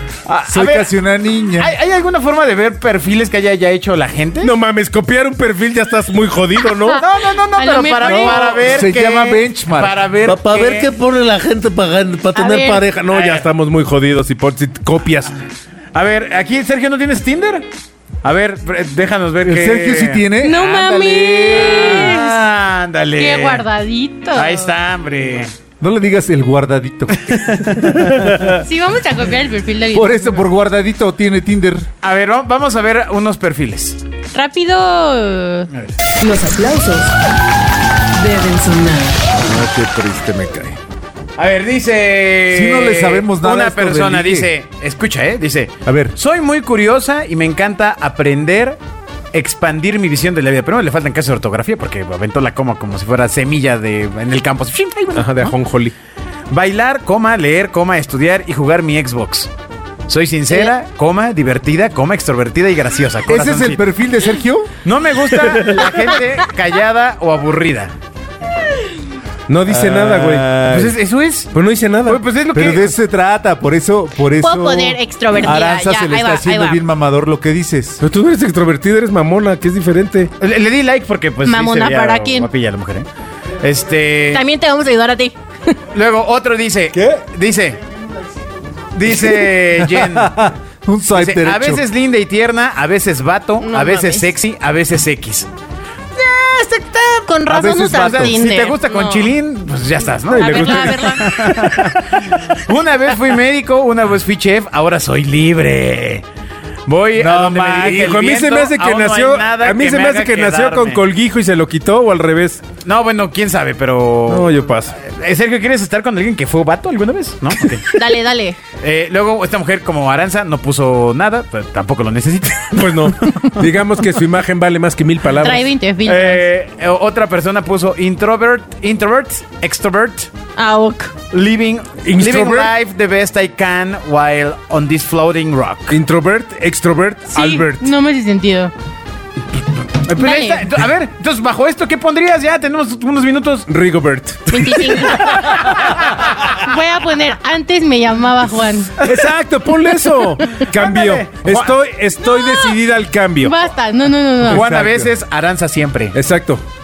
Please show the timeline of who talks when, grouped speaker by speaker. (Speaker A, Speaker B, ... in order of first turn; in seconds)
Speaker A: 0.3-0.9, 1.6-4.5, 7.0-10.9, 13.1-13.4, 15.9-17.7, 18.2-20.2, 21.6-23.6, 24.4-25.5, 27.3-28.1, 32.0-34.0, 41.4-48.8, 49.3-55.5, 56.5-59.5, 60.1-63.8, 64.8-67.9, 70.7-71.5, 72.1-73.0, 80.4-83.1, 83.6-84.4, 85.9-87.8, 88.9-90.3, 91.1-95.5, 96.2-106.2, 106.9-111.0, 112.8-118.0, 118.8-123.6, 126.0-130.3, 131.3-136.0, 140.0-143.7, 144.6-146.6, 149.0-149.3, 150.7-151.7, 154.5-156.2
Speaker B: 0.5-1.7, 8.1-9.9, 19.4-22.1, 25.8-28.6, 29.9-31.9, 42.5-44.5, 45.9-46.2, 63.3-64.7, 69.7-71.0, 72.5-78.0, 89.2-91.8, 97.5-98.4, 107.2-108.2, 154.4-155.2
Speaker C: 4.4-7.0, 10.2-15.4, 39.5-40.8, 55.1-55.9, 69.5-70.5, 71.5-72.2, 78.0-80.3, 100.3-101.4, 107.8-112.6, 114.3-115.0, 122.8-125.7, 132.0-132.7, 135.9-137.9, 143.7-145.8, 149.0-153.6, 156.1-156.6
Speaker D: 7.6-8.5, 12.3-12.8, 20.4-22.5, 23.2-24.7, 28.6-30.5, 34.3-35.7, 74.3-76.8, 81.4-82.5, 84.3-85.8, 93.6-94.3, 97.3-99.3, 100.3-101.3, 117.9-118.6, 125.4-126.5, 130.6-131.1, 137.3-138.7, 140.2-140.7, 144.5-145.6, 146.4-148.9, 150.4-150.7, 152.2-152.7, 153.4-154.7
Speaker E: 36.2-37.2, 38.1-39.3